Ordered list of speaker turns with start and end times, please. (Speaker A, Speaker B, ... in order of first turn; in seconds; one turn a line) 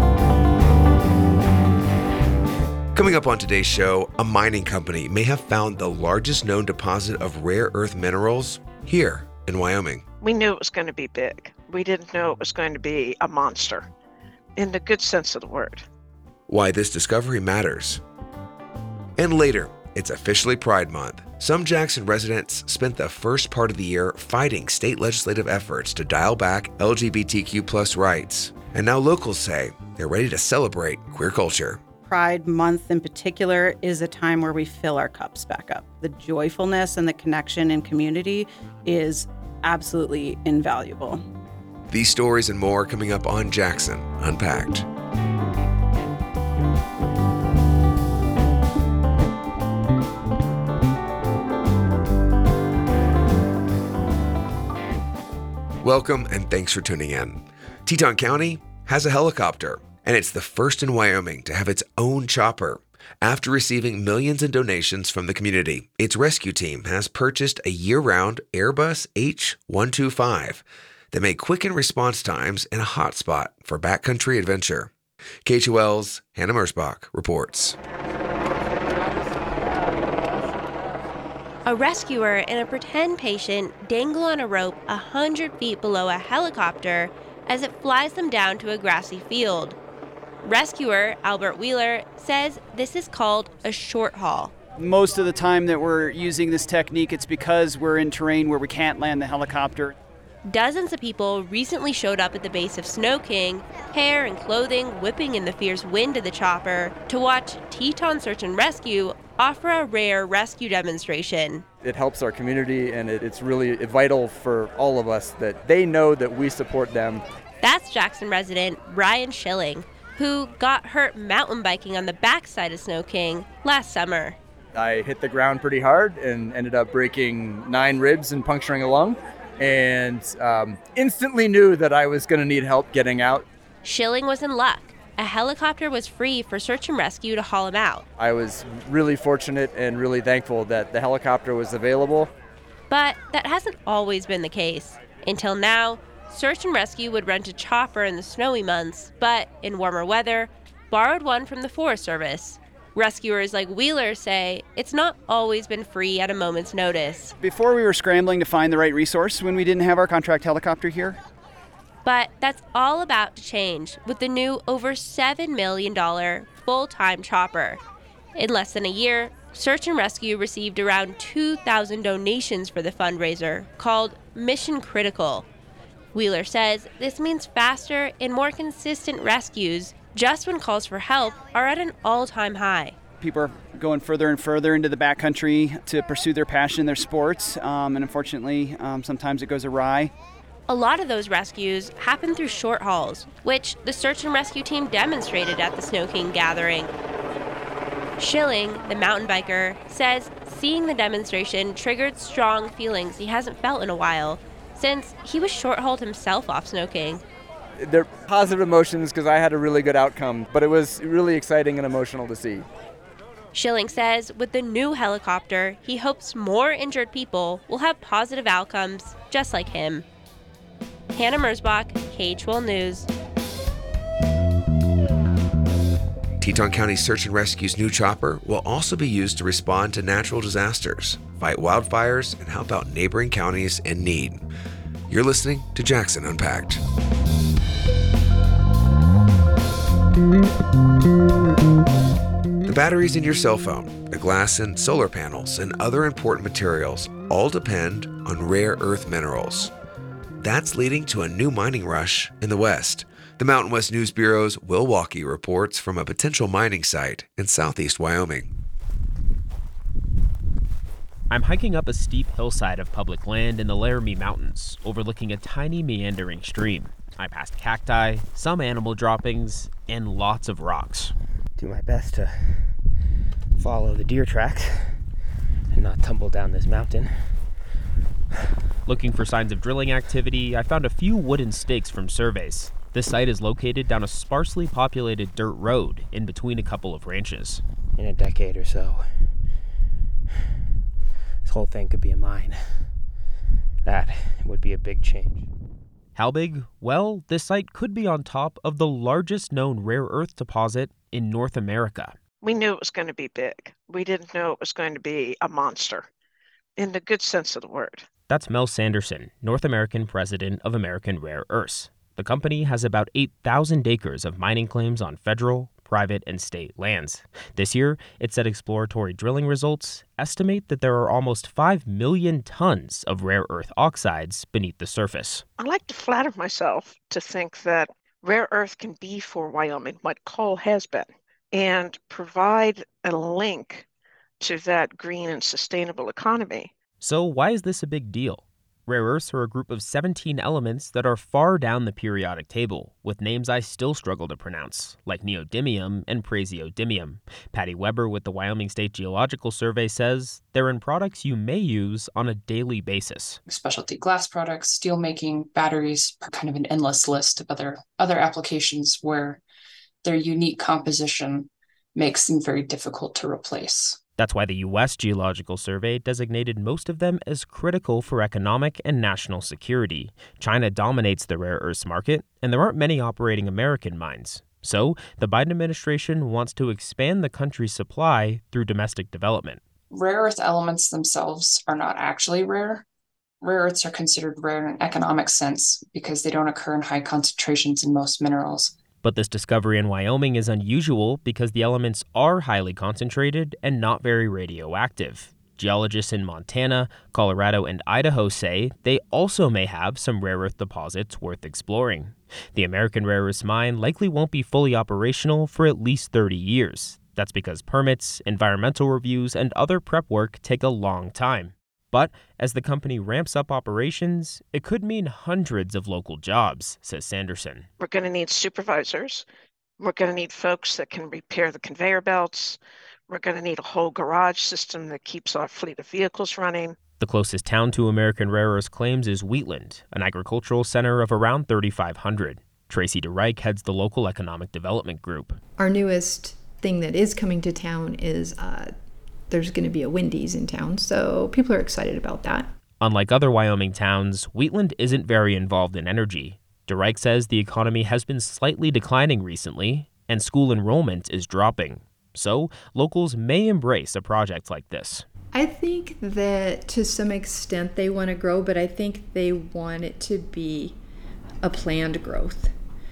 Speaker A: 2.9-10.0
Speaker B: 10.2-13.9
Speaker B: 14.6-15.8
Speaker A: 16.5-18.0
Speaker A: 19.2-31.8
Speaker C: 32.0-41.2
Speaker A: 41.9-44.9
Speaker A: 55.8-74.9
Speaker A: 75.4-77.8
Speaker D: 81.7-89.8
Speaker D: 90.4-94.5
Speaker E: 94.8-99.9
Speaker D: 100.4-111.6
Speaker F: 111.8-117.2
Speaker D: 117.6-124.4
Speaker F: 124.7-133.4
Speaker D: 133.8-138.1
Speaker F: 138.2-142.3
Speaker D: 142.9-157.3
Speaker E: 157.4-161.2
Speaker D: 162.0-167.8
Speaker D: 168.3-175.5
Speaker D: 176.1-183.0
Speaker E: 183.2-190.1
Speaker D: 190.7-196.9
Speaker D: 198.2-207.2
Speaker F: 207.8-212.7
Speaker D: 213.5-220.1
Speaker D: 221.1-223.1
Speaker A: 226.4-234.4
Speaker A: 235.1-236.8
Speaker A: 242.7-249.7
Speaker A: 250.4-258.5
Speaker G: 261.3-271.1
Speaker H: 271.6-272.9
Speaker H: 273.5-275.1
Speaker H: 275.7-277.6
Speaker G: 278.8-287.6
Speaker H: 287.9-289.3
Speaker H: 291.4-293.0
Speaker H: 293.8-295.5
Speaker G: 296.1-302.1
Speaker B: 302.4-306.1
Speaker B: 306.8-308.1
Speaker G: 308.3-325.4
Speaker B: 325.6-333.9
Speaker B: 334.4-336.7
Speaker G: 337.0-353.4
Speaker I: 353.4-359.4
Speaker I: 360.0-364.0
Speaker G: 364.2-379.6
Speaker I: 379.9-382.9
Speaker I: 383.4-388.8
Speaker G: 389.0-417.7
Speaker B: 417.8-419.2
Speaker B: 419.8-426.8
Speaker G: 427.0-435.4
Speaker J: 435.6-438.7
Speaker J: 439.3-442.5
Speaker G: 442.8-455.0
Speaker J: 455.3-460.8
Speaker J: 461.4-462.5